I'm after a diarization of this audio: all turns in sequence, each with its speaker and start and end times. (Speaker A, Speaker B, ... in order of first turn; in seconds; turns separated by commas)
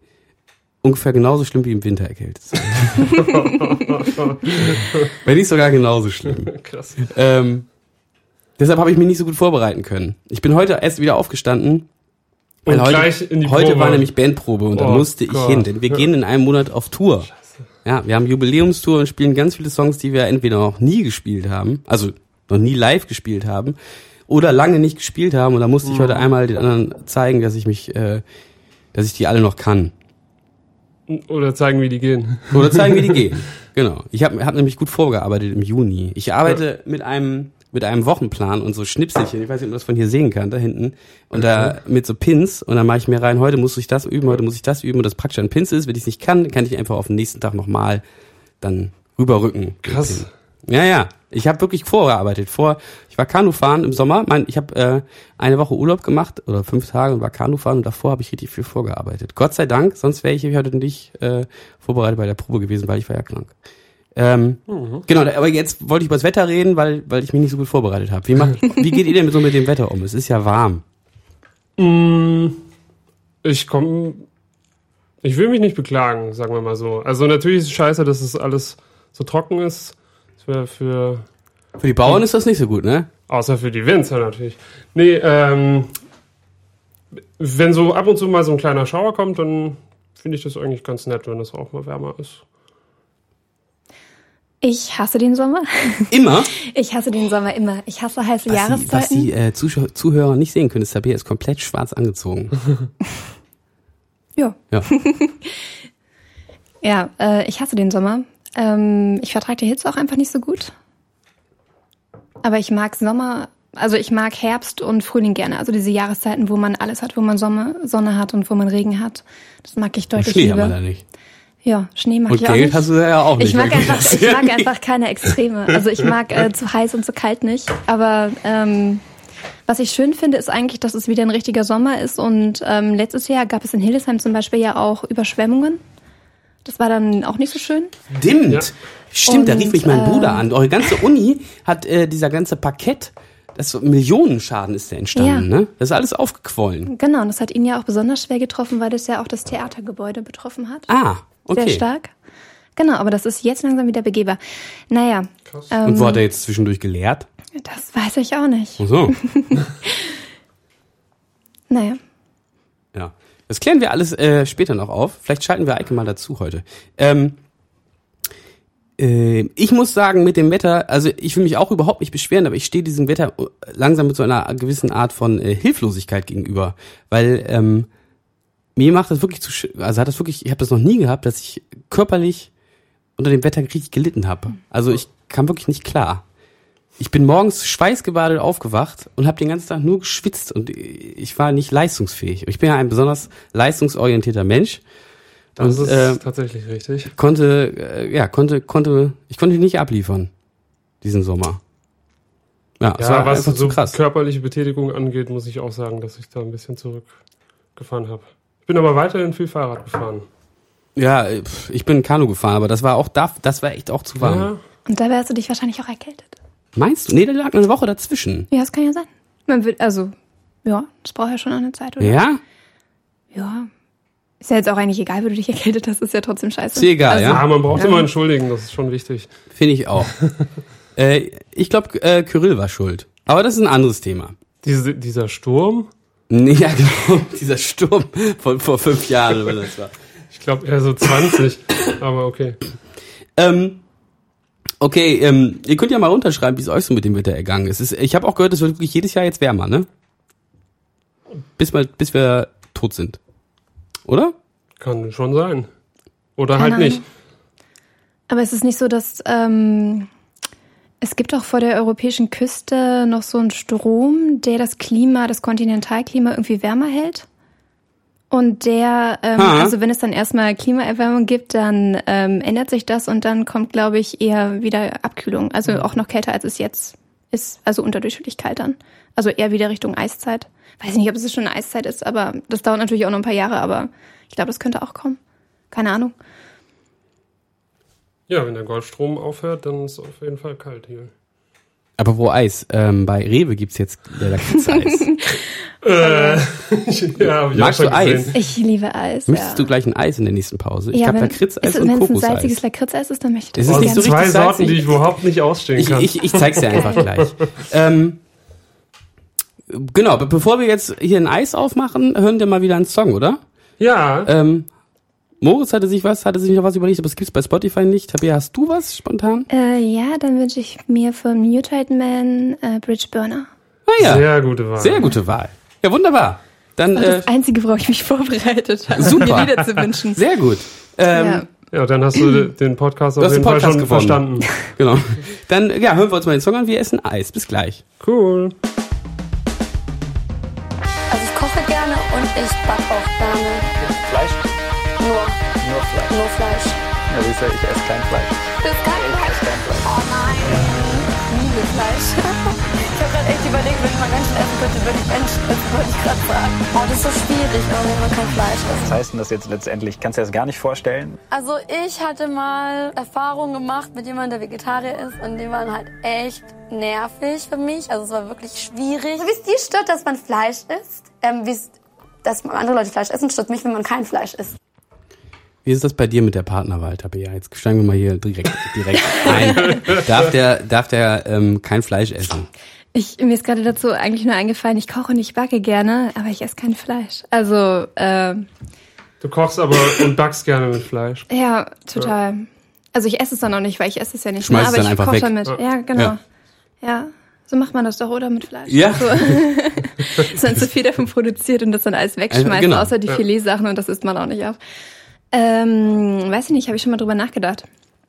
Speaker A: 0.8-3.1, Speaker B: 3.1-5.1, Speaker A: 4.7-7.7, Speaker B: 6.5-7.1, Speaker A: 8.6-11.9, Speaker B: 12.7-14.1, Speaker A: 12.7-17.3, Speaker B: 14.7-16.0, Speaker A: 17.9-23.8, Speaker A: 24.3-28.2, Speaker B: 25.8-26.3, Speaker A: 28.9-29.9, Speaker B: 31.1-33.2, Speaker A: 32.5-48.0, Speaker B: 41.3-41.8, Speaker A: 48.6-63.5, Speaker B: 49.9-50.3, Speaker A: 64.2-70.8, Speaker B: 64.7-65.0, Speaker B: 71.8-72.6, Speaker B: 73.4-74.3, Speaker B: 75.2-81.3, Speaker A: 81.8-83.1, Speaker B: 83.3-86.0, Speaker B: 87.4-92.4, Speaker C: 94.6-99.3, Speaker A: 96.1-96.5, Speaker A: 98.5-102.5, Speaker C: 104.4-105.6, Speaker C: 106.8-110.7, Speaker C: 112.4-120.8, Speaker A: 120.2-121.0, Speaker C: 121.7-129.0, Speaker A: 122.3-124.7, Speaker C: 129.7-135.8, Speaker C: 136.7-137.9, Speaker A: 138.1-146.9, Speaker C: 139.3-140.5, Speaker C: 145.2-145.5, Speaker C: 146.9-150.9, Speaker A: 150.9-151.8, Speaker C: 151.5-152.1, Speaker C: 152.8-154.4, Speaker C: 154.9-156.2, Speaker A: 155.8-157.3, Speaker C: 157.6-160.2, Speaker A: 158.8-159.2, Speaker C: 161.7-162.0, Speaker A: 162.9-167.4, Speaker A: 169.0-177.9, Speaker A: 178.8-182.5, Speaker A: 183.2-186.2, Speaker A: 187.0-194.8, Speaker A: 195.6-196.2, Speaker B: 195.6-197.1, Speaker A: 197.1-200.3, Speaker A: 201.0-201.6, Speaker A: 202.8-204.0, Speaker B: 203.0-207.2, Speaker B: 207.8-210.2, Speaker A: 211.0-214.5, Speaker B: 214.2-214.6, Speaker C: 214.9-216.4, Speaker A: 216.8-218.5, Speaker C: 218.5-220.1, Speaker C: 220.7-222.2, Speaker A: 222.0-222.4, Speaker C: 223.3-223.7, Speaker C: 224.4-228.1, Speaker A: 226.8-227.4, Speaker B: 227.2-229.3, Speaker A: 229.5-230.2, Speaker A: 231.0-234.3, Speaker B: 234.6-235.9, Speaker A: 236.3-239.9, Speaker B: 240.3-242.6, Speaker A: 243.4-243.8, Speaker A: 244.8-249.9, Speaker A: 251.6-253.2, Speaker A: 254.1-254.3, Speaker B: 254.8-255.7, Speaker B: 256.4-257.1, Speaker C: 256.6-257.0, Speaker C: 258.3-260.1, Speaker C: 261.0-267.3, Speaker C: 268.3-285.2, Speaker A: 269.4-269.8, Speaker C: 285.7-286.1, Speaker B: 288.3-291.1, Speaker A: 292.0-295.1, Speaker C: 294.7-296.4, Speaker B: 295.8-298.4, Speaker A: 297.2-298.4, Speaker C: 298.3-299.7, Speaker A: 299.3-302.6, Speaker C: 300.9-304.2, Speaker A: 303.6-305.0, Speaker B: 303.7-307.3, Speaker A: 305.8-308.2, Speaker C: 306.7-307.1, Speaker A: 309.7-313.4, Speaker B: 313.8-314.3, Speaker A: 314.2-314.7, Speaker A: 315.4-319.5, Speaker C: 319.5-323.5, Speaker A: 323.9-327.3, Speaker B: 324.0-325.1, Speaker C: 326.9-330.2, Speaker A: 329.0-329.6, Speaker A: 330.1-331.4, Speaker C: 331.1-331.5, Speaker B: 331.7-334.5, Speaker A: 333.2-337.8, Speaker B: 338.0-338.5, Speaker D: 341.1-343.6, Speaker E: 343.9-344.5, Speaker D: 345.0-345.4, Speaker E: 345.6-346.2, Speaker D: 346.1-346.8, Speaker E: 347.1-349.9, Speaker D: 348.6-358.9, Speaker E: 358.7-361.2, Speaker D: 361.3-371.7, Speaker D: 372.2-374.6, Speaker A: 375.6-382.5, Speaker B: 379.3-380.1, Speaker C: 382.9-388.5, Speaker B: 389.2-391.3, Speaker C: 391.3-396.2, Speaker A: 394.4-396.1, Speaker C: 396.8-404.6, Speaker A: 398.7-399.5, Speaker A: 402.3-402.9, Speaker C: 405.3-407.7